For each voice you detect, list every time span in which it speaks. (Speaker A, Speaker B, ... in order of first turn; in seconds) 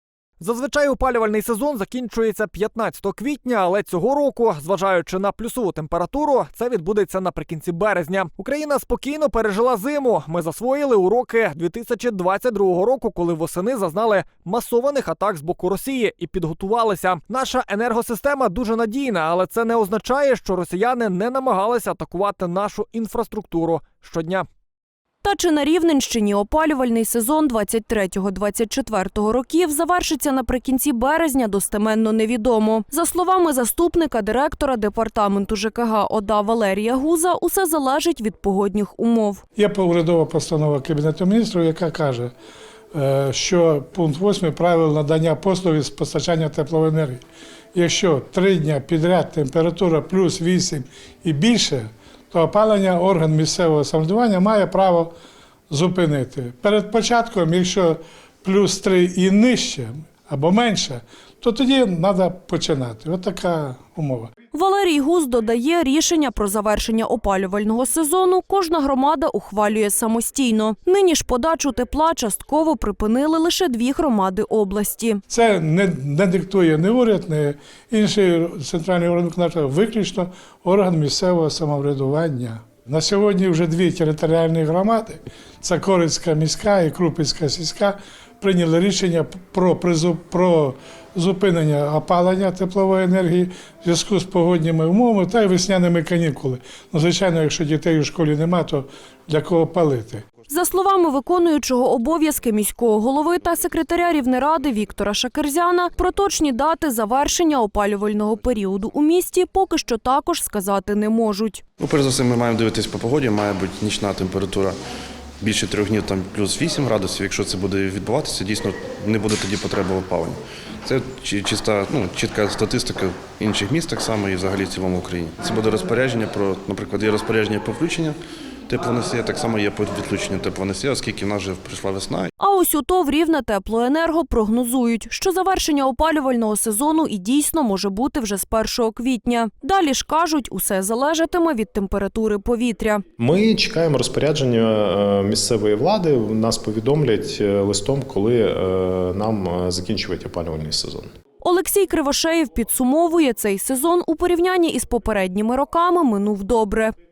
Speaker A: 0.4-24.5
Speaker B: 25.2-39.4, 64.5-75.2, 100.5-111.6, 132.4-143.0, 151.4-156.9
Speaker C: 39.6-42.3, 42.9-47.2, 47.7-55.1, 55.7-64.3, 75.3-100.2
Speaker D: 111.8-114.8, 115.4-132.3
Speaker E: 143.2-151.1